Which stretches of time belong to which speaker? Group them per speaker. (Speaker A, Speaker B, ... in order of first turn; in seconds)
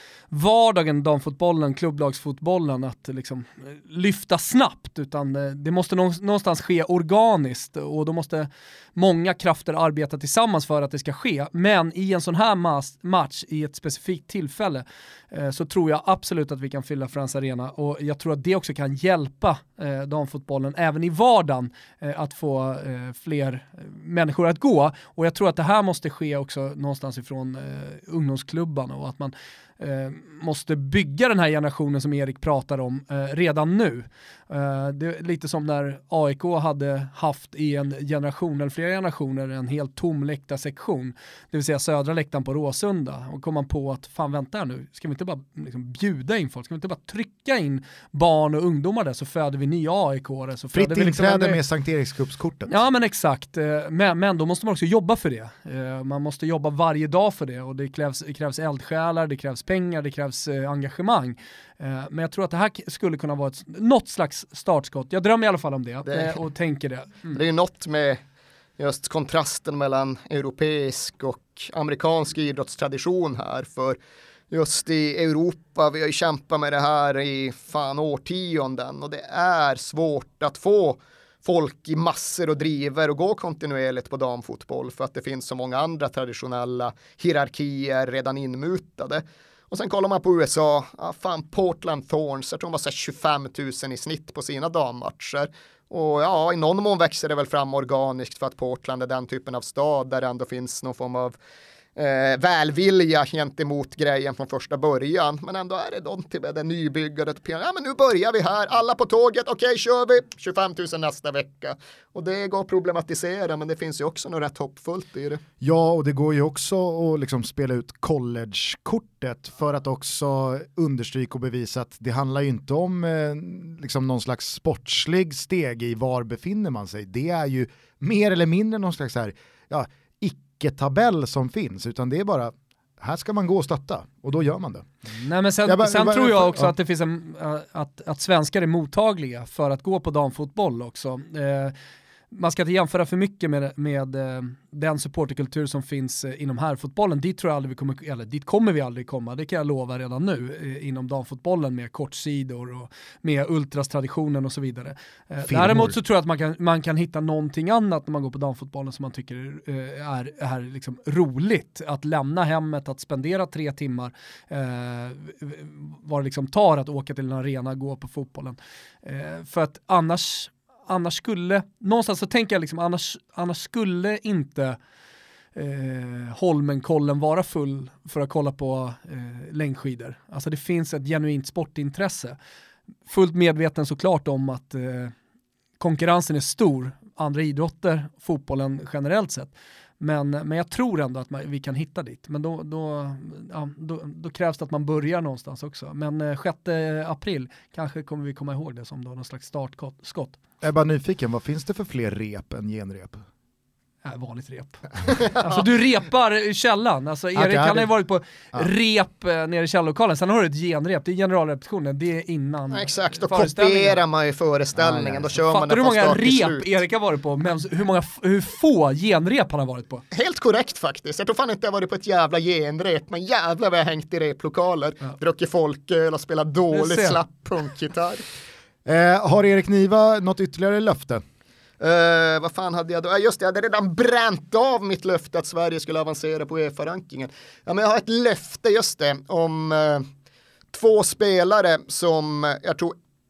Speaker A: 0.3-51.6, 52.7-67.4, 135.1-141.8, 142.3-174.8, 175.6-182.4, 183.1-185.1, 185.8-200.4, 204.0-214.0, 215.5-220.0, 226.7-227.2
Speaker B: 50.7-52.8, 115.6-134.9, 135.7-136.7, 155.4-156.0, 200.6-203.2, 207.3-207.9, 214.8-215.3, 228.9-231.2
Speaker C: 66.1-66.4, 67.3-68.2, 68.8-74.0, 74.5-101.4, 102.0-115.4, 212.7-216.7, 220.1-228.2, 231.8-240.1, 240.7-242.9